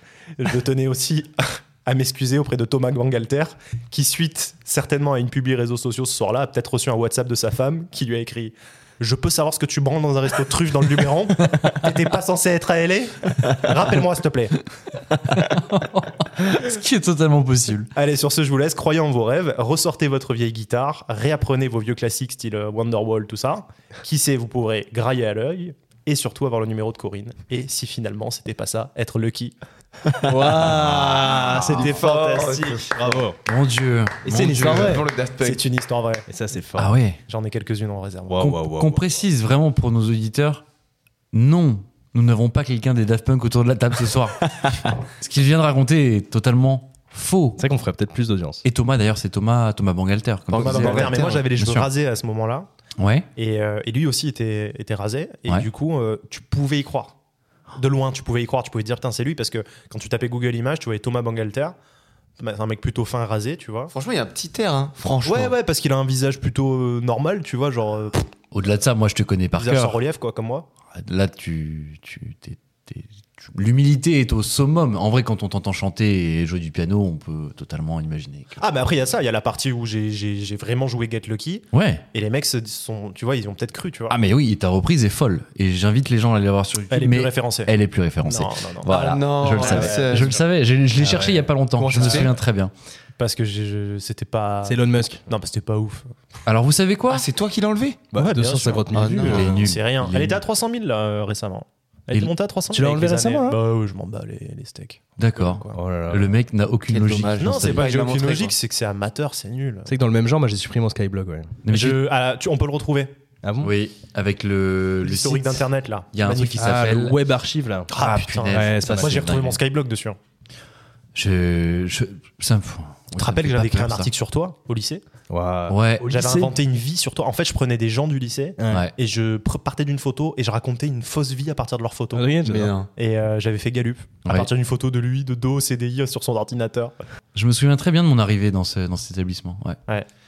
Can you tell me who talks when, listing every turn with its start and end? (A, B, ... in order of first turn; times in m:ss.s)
0:00.4-0:14.6 A
0:15.3-0:17.9 B
0:17.9-0:29.6 A
0:30.2-0:32.0 C
0:31.2-0:33.2 A
0:31.8-0:33.1 D
0:32.9-0:33.4 C
0:33.4-0:35.0 B
0:34.2-0:35.6 D
0:34.3-0:35.0 C
0:34.6-0:36.2 A
0:36.3-0:36.9 C
0:36.8-0:37.2 B
0:37.2-0:38.4 A
0:38.2-0:39.0 C
0:38.4-0:40.6 B
0:41.3-0:47.6 B
0:47.6-0:48.6 C
0:48.6-0:51.9 B
0:50.5-0:51.4 D
0:50.6-0:52.7 A
0:53.0-0:53.3 B
0:53.4-0:57.2 A
0:57.8-1:01.7 A
1:02.4-1:03.9 A
1:03.9-1:05.5 D
1:05.2-1:08.3 A
1:08.5-1:10.0 B
1:09.5-1:10.7 A
1:10.9-1:18.6 B
1:18.6-1:24.2 A
1:21.7-1:22.0 B
1:24.1-1:32.7 B
1:26.9-1:27.7 A
1:28.2-1:29.0 A
1:28.8-1:30.4 D
1:29.6-1:30.4 A
1:31.0-1:31.4 C
1:31.7-1:32.3 D
1:33.2-1:36.1 A
1:34.6-1:35.2 C
1:36.4-1:37.2 B
1:37.1-1:38.0 D
1:38.1-1:39.6 C
1:38.2-1:39.0 A
1:38.9-1:39.6 D
1:39.2-1:40.4 B
1:39.5-1:45.7 A
1:42.7-1:43.6 C
1:45.2-1:48.0 B
1:45.7-1:46.3 C
1:46.9-1:48.5 D
1:47.4-1:49.9 A
1:49.8-1:51.6 C
1:51.6-1:52.0 B
1:51.7-1:53.1 A
1:53.4-1:53.7 C
1:53.6-1:57.2 B
1:55.0-1:57.1 A
1:56.6-1:57.9 C
1:57.9-2:00.2 A
1:57.9-1:59.6 B
1:58.4-1:59.3 C
2:01.1-2:04.1 B
2:03.2-2:05.0 A
2:05.3-2:06.5 C
2:05.7-2:06.2 B
2:06.0-2:12.4 A
2:08.6-2:08.8 C
2:12.1-2:12.7 C
2:12.4-2:12.9 D
2:12.9-2:16.9 A
2:17.3-2:19.8 B